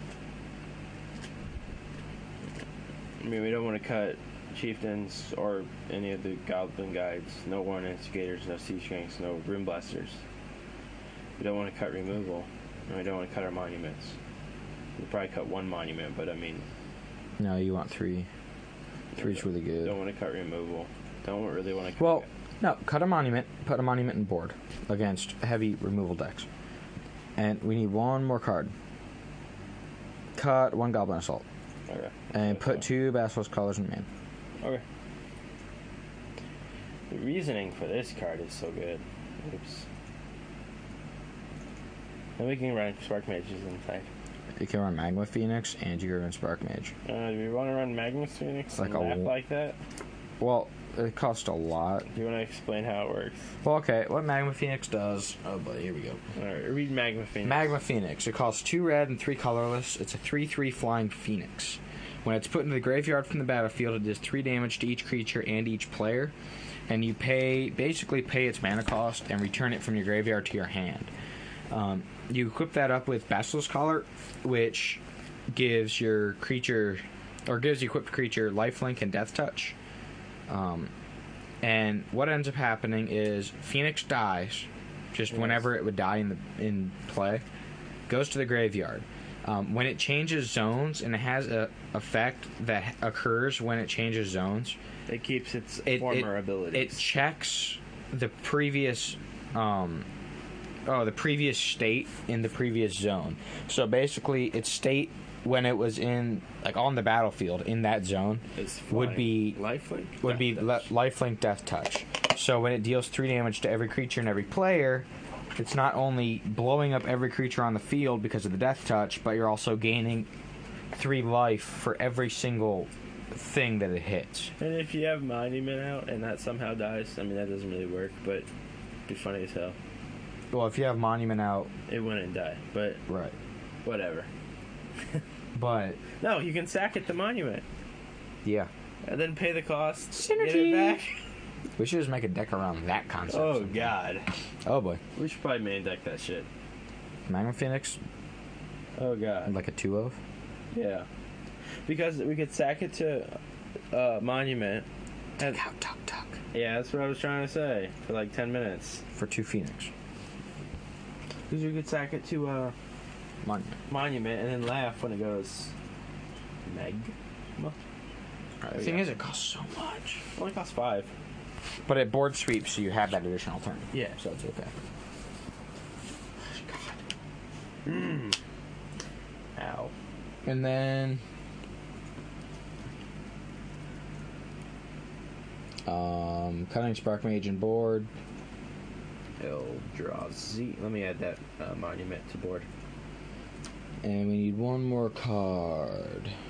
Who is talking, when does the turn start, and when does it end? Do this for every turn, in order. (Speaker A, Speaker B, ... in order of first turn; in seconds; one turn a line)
Speaker A: 3.2-10.2
Speaker A: 11.4-14.2
Speaker A: 15.0-16.6
Speaker B: 17.4-18.3
Speaker A: 19.1-22.3
Speaker B: 19.1-19.9
Speaker B: 22.0-26.4
Speaker B: 27.4-28.7
Speaker B: 30.3-31.4
Speaker A: 31.9-32.9
Speaker B: 32.3-34.1
Speaker A: 37.1-39.9
Speaker A: 42.4-44.1
Speaker B: 44.6-46.9
Speaker A: 47.0-49.8
Speaker B: 48.8-49.3
Speaker B: 50.4-52.1
Speaker A: 52.1-53.5
Speaker B: 53.6-56.2
Speaker A: 56.4-57.7
Speaker B: 57.4-66.3
Speaker B: 66.9-71.1
Speaker B: 71.7-79.8
Speaker B: 80.5-80.9
Speaker B: 81.6-87.4
Speaker A: 85.3-85.6
Speaker B: 88.1-94.8
Speaker A: 95.1-97.0
Speaker B: 95.9-100.0
Speaker B: 100.8-109.6
Speaker A: 108.5-110.8
Speaker B: 110.2-120.3
Speaker B: 120.9-124.5
Speaker A: 124.6-128.5
Speaker A: 129.1-129.8
Speaker B: 130.5-131.7
Speaker A: 131.9-133.0
Speaker B: 133.1-133.3
Speaker A: 133.8-134.3
Speaker B: 135.5-136.0
Speaker A: 136.2-137.6
Speaker A: 139.0-141.2
Speaker B: 140.1-141.0
Speaker B: 141.8-143.9
Speaker A: 143.3-144.3
Speaker B: 144.6-145.0
Speaker A: 145.2-146.5
Speaker B: 147.3-148.0
Speaker A: 149.0-149.5
Speaker B: 149.5-150.2
Speaker A: 150.7-151.1
Speaker A: 151.8-153.4
Speaker A: 153.9-154.8
Speaker B: 155.4-156.4
Speaker A: 156.5-159.0
Speaker B: 159.1-159.9
Speaker A: 161.5-162.7
Speaker B: 163.4-163.8
Speaker A: 163.9-165.7
Speaker A: 166.7-167.8
Speaker B: 168.6-170.2
Speaker A: 168.7-169.1
Speaker A: 170.3-171.1
Speaker B: 171.9-174.7
Speaker A: 173.9-174.2
Speaker A: 177.8-178.4
Speaker A: 179.6-179.9
Speaker B: 180.4-181.2
Speaker B: 185.8-188.1
Speaker A: 189.4-192.7
Speaker B: 194.0-196.3